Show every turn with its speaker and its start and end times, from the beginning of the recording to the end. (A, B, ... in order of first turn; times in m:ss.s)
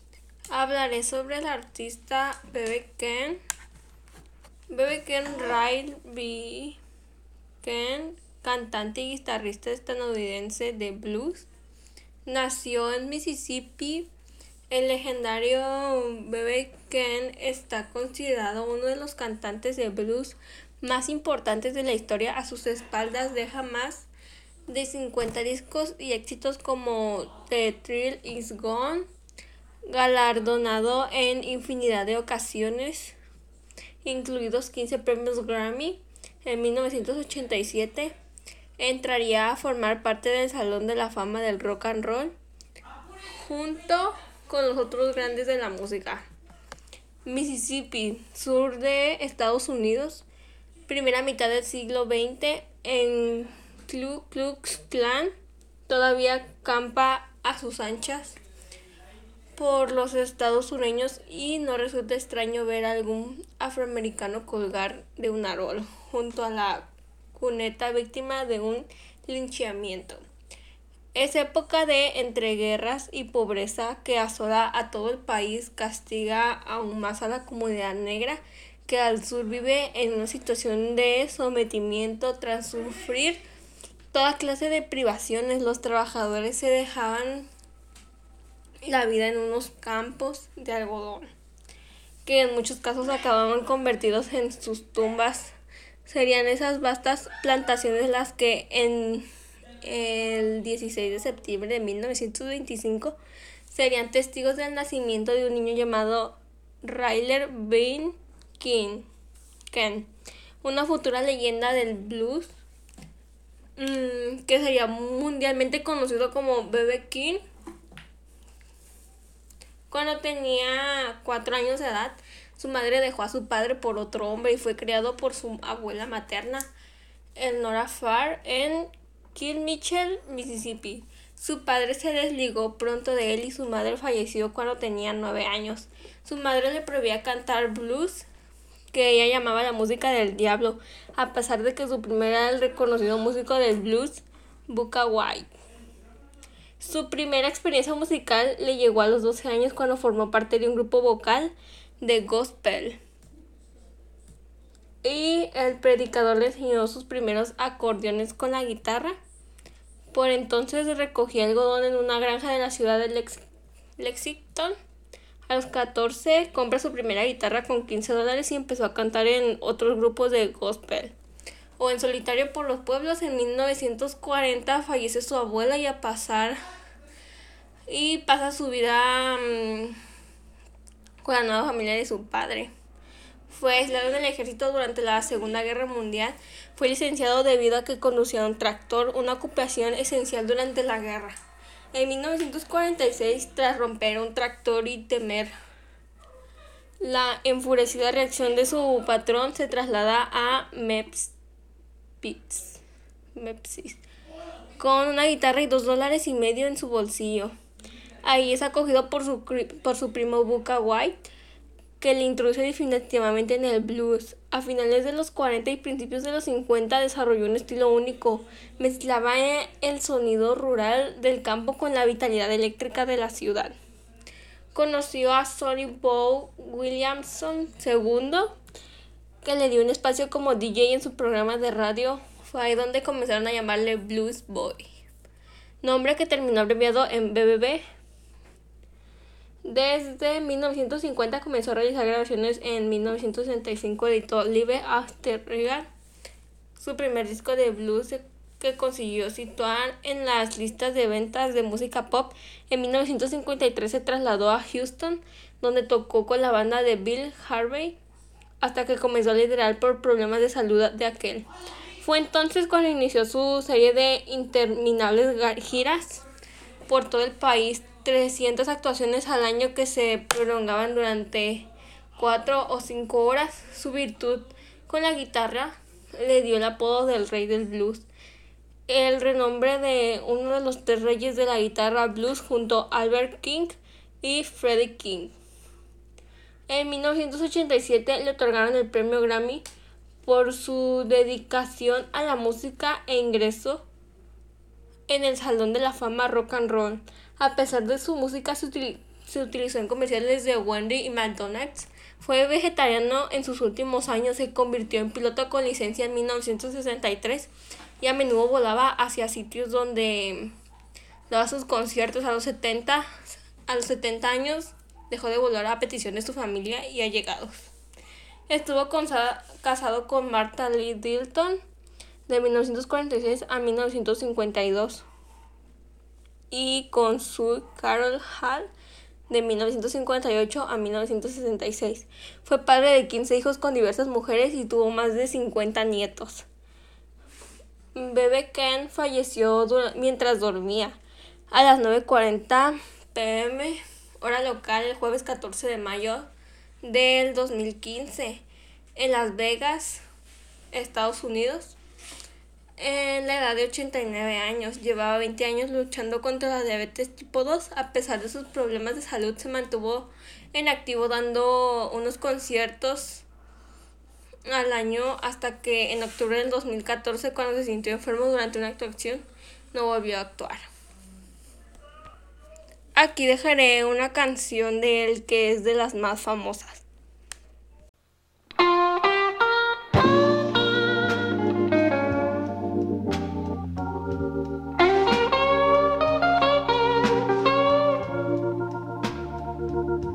0:00.5-0:03.4 A
0:04.7-0:06.8 A
0:07.6-0:11.5 A
0:12.2-0:14.1 A
0:14.7-0:24.1 A
0:24.7-0:29.1 A
0:29.9-0:33.2 A
0:34.0-0:38.1 A
0:38.8-0:42.4 A
0:43.2-0:46.3 A
0:47.2-0:50.3 A
0:50.9-0:55.3 A
0:55.9-0:58.4 A
0:59.6-1:10.2 A
1:11.1-1:23.4 A
1:24.1-1:27.5 A
1:28.8-1:31.3 A
1:32.2-1:35.5 A
1:36.0-1:39.3 A
1:39.8-1:49.1 A
1:49.7-1:50.1 A
1:50.6-1:52.5 A
1:53.8-1:57.4 A
1:59.9-2:06.7 A
2:07.4-2:18.3 A
2:18.9-2:25.5 A
2:26.8-2:33.0 A
2:35.0-2:39.2 A
2:40.1-2:43.5 A
2:44.0-2:44.8 A
2:45.5-2:51.1 A
2:51.8-2:56.6 A
2:57.9-3:00.0 A
3:01.2-3:02.7 A
3:03.5-3:11.4 A
3:11.9-3:15.5 A
3:17.0-3:21.3 A
3:22.2-3:22.8 A
3:23.4-3:24.0 A
3:24.8-3:27.6 A
3:28.2-3:31.2 A
3:32.0-3:43.7 A
3:44.7-3:48.6 A
3:49.4-3:54.9 A
3:55.8-3:57.8 A
3:59.6-4:05.9 A
4:06.8-4:18.0 A
4:18.6-4:21.5 A
4:22.0-4:26.2 A
4:26.9-4:38.1 A
4:38.9-4:45.3 A
4:46.7-4:49.6 A
4:50.2-4:53.8 A
4:55.1-5:10.6 A
5:11.3-5:17.7 A
5:18.5-5:21.6 A
5:22.3-5:25.1 A
5:26.5-5:28.7 A
5:29.3-5:36.5 A
5:38.0-5:41.0 A
5:41.5-5:46.3 A
5:46.8-5:48.4 A
5:49.0-5:50.0 A
5:50.7-5:51.8 A
5:52.8-6:03.3 A
6:04.5-6:10.7 A
6:13.0-6:16.8 A